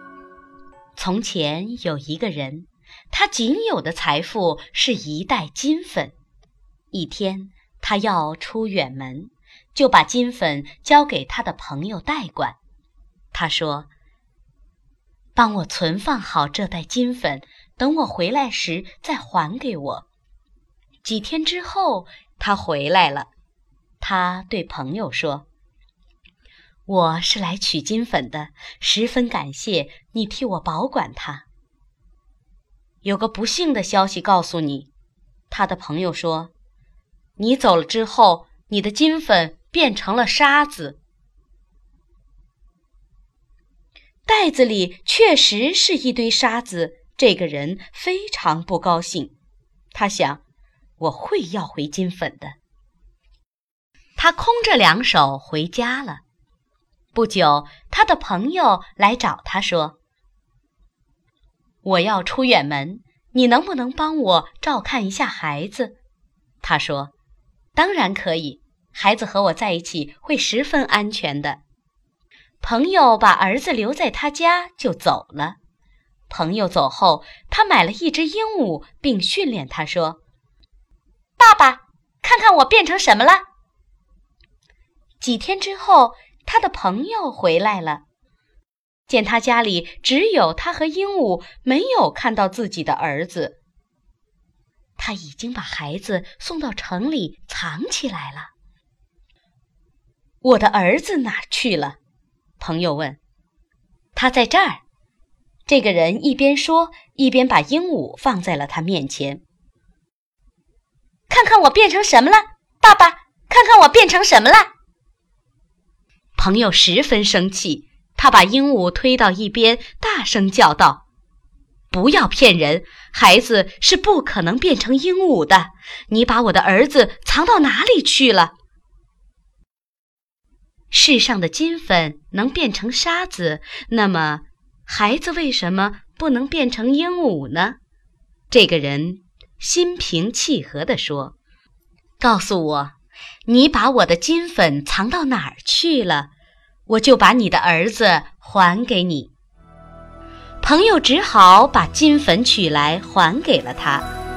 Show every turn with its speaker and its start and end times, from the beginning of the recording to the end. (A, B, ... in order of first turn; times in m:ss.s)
0:01.0-0:06.2 A
0:06.9-0:12.6 A
0:13.3-0:13.9 A
0:15.4-0:20.1 A
0:21.0-0:23.3 A
0:24.0-0:25.5 A
0:26.9-0:31.5 A
0:33.0-0:34.9 A
0:35.5-0:36.5 A
0:37.4-0:41.0 A
0:44.3-0:49.3 A
0:49.9-0:50.4 A
0:51.0-0:52.6 A
0:54.2-0:56.2 A
0:57.1-1:00.0 A
1:01.8-1:06.0 A
1:06.6-1:07.1 A
1:07.8-1:11.6 A
1:12.6-1:15.6 A
1:16.3-1:20.2 A
1:21.4-1:23.4 A
1:25.2-1:28.0 A
1:29.1-1:33.6 A
1:35.0-1:38.5 A
1:40.4-1:42.0 A
1:42.6-1:43.2 A
1:44.2-1:44.8 A
1:45.7-1:49.4 A
1:51.3-1:54.7 A
1:56.4-2:01.0 A
2:01.9-2:08.5 A
2:10.9-2:17.8 A
2:18.5-2:21.4 A
2:22.2-2:23.0 A
2:23.5-2:26.3 A
2:26.9-2:29.3 A
2:30.6-2:34.1 A